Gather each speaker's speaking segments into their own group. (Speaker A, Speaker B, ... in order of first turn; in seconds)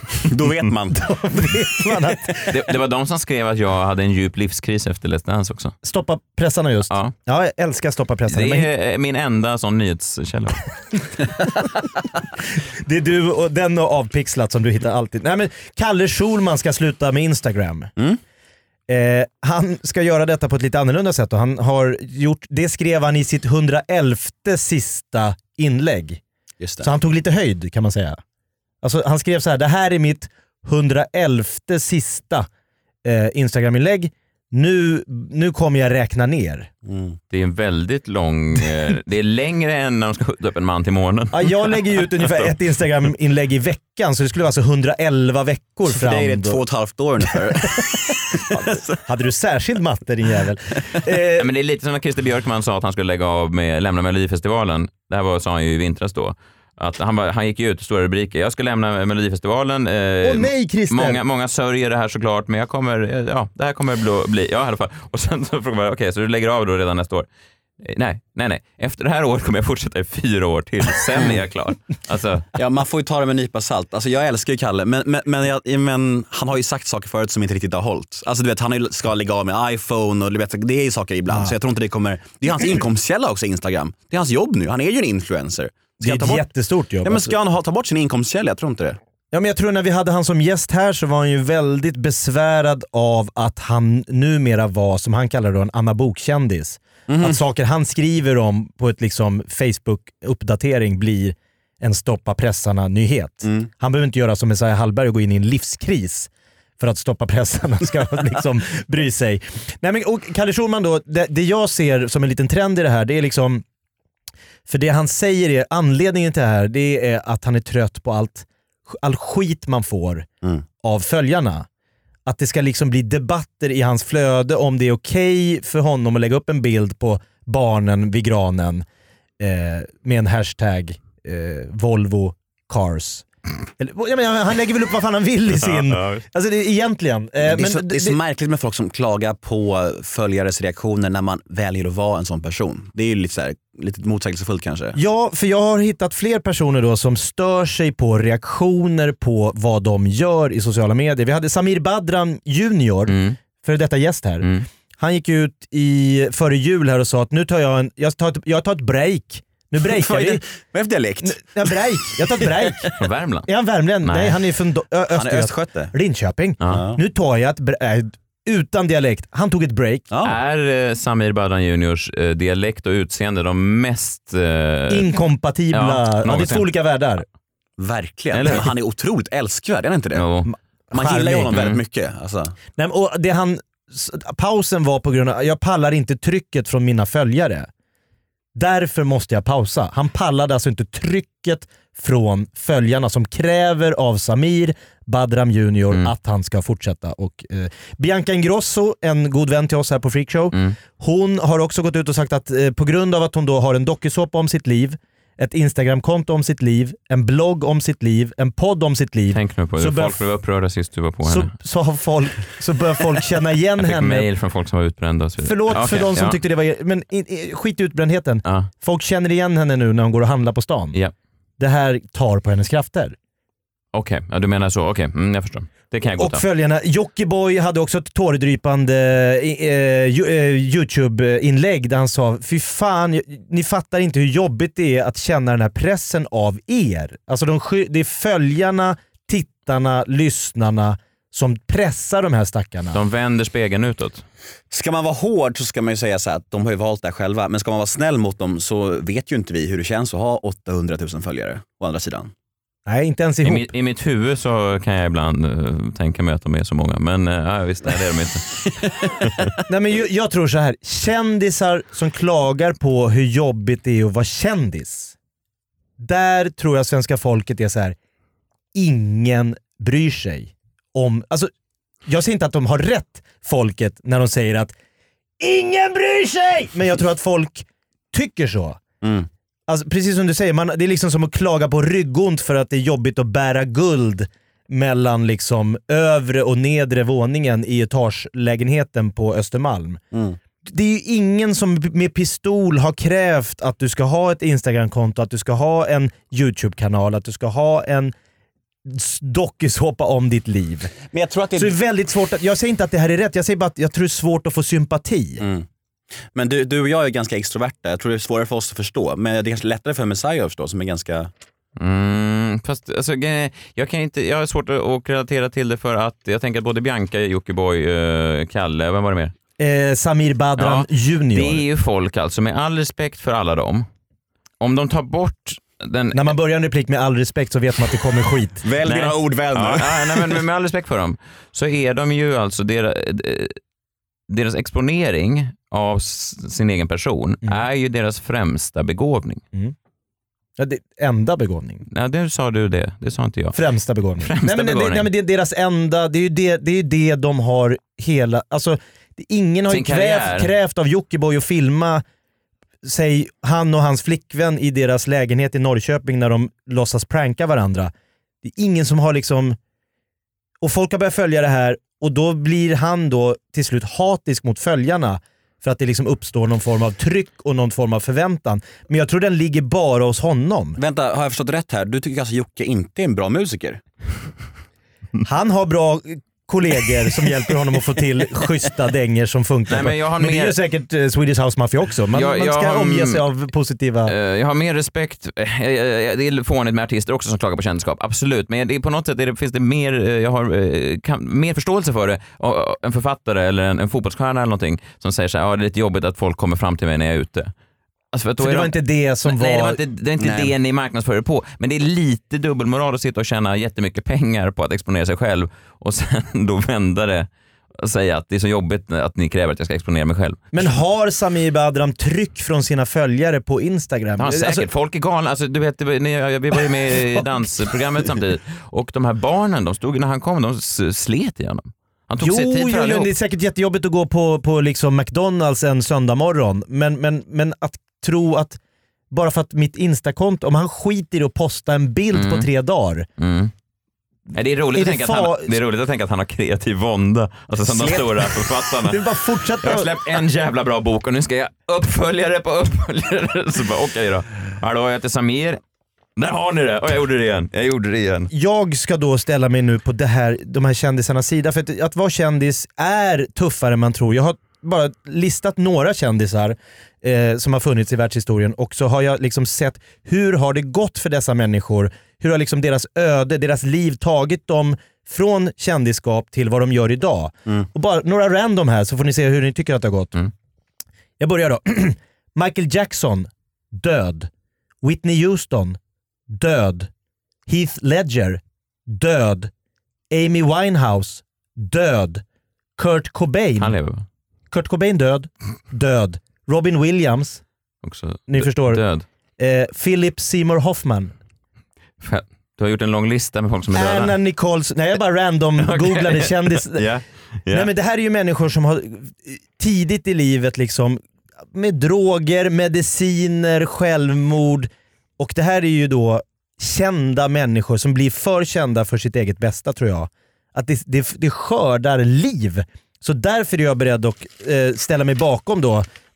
Speaker A: 0.2-2.2, 26.6-26.9, 36.9-37.2, 45.9-49.0, 72.5-86.5, 87.0-89.0, 97.1-97.4, 103.4-103.7, 137.4-145.0, 159.8-162.9, 165.1-165.9, 166.7-167.0, 170.1-170.4, 177.8-180.3, 180.9-182.5, 244.7-252.3, 279.0-279.3, 290.1-290.4, 301.1-301.8, 305.4-305.6, 306.3-311.3, 328.6-330.4, 370.8-373.8, 400.2-400.5, 437.6-438.3
Speaker B: 0.9-2.5, 5.8-8.7, 12.8-17.9, 18.9-26.2, 26.8-28.2, 28.8-32.5, 33.0-36.7, 41.3-46.6, 48.5-51.5, 60.2-61.2, 86.0-87.3, 89.3-113.6, 114.7-120.2, 120.8-121.7, 122.2-128.8, 129.4-133.2, 133.8-138.2, 144.9-154.4, 155.0-160.4, 161.2-162.9, 163.5-170.1, 174.9-177.2, 180.5-181.5, 182.8-187.7, 188.5-210.2, 211.2-214.3, 215.4-220.9, 221.6-223.2, 226.2-243.0, 252.9-253.7, 259.7-265.1, 266.0-267.9, 268.7-271.5, 272.1-274.7, 275.4-278.8, 279.7-290.0, 290.6-298.1, 298.9-300.9, 301.6-305.4, 319.6-321.6, 326.1-328.6, 340.6-341.8, 343.5-352.0, 352.8-357.9, 358.4-359.6, 360.6-370.8, 375.2-384.1, 398.4-399.8, 410.5-414.7, 422.2-428.6, 429.1-433.1, 434.7-435.6, 438.9-439.9, 448.3-470.1, 471.2-474.3, 474.8-475.8, 476.3-476.9, 477.5-479.5, 480.1-482.2, 482.8-483.7, 484.5-487.4, 488.3-488.8, 489.4-491.1, 493.7-496.8, 497.5-501.0, 501.5-515.8
Speaker C: 2.5-5.8, 8.3-11.2, 37.3-42.5, 51.4-67.2, 67.8-72.4, 135.6-136.2, 153.1-153.4, 154.4-154.7, 163.0-163.5, 164.0-164.4, 170.2-175.1, 175.7-176.7, 178.3-178.7, 180.1-180.5, 181.5-181.8, 209.3-211.5, 213.8-216.4, 223.9-226.4, 242.9-244.2, 253.4-258.5, 311.8-319.3, 320.6-323.9, 324.6-326.3, 328.8-333.6, 334.3-339.4, 341.9-343.6, 344.2-345.1, 349.7-350.5, 379.7-380.5, 382.1-383.3, 384.1-397.5, 398.1-410.7, 414.2-423.1, 432.1-432.5, 433.2-433.5, 434.3-439.0, 439.6-445.6, 446.2-448.3, 483.6-484.0, 487.8-489.1, 492.0-494.1, 495.6-497.7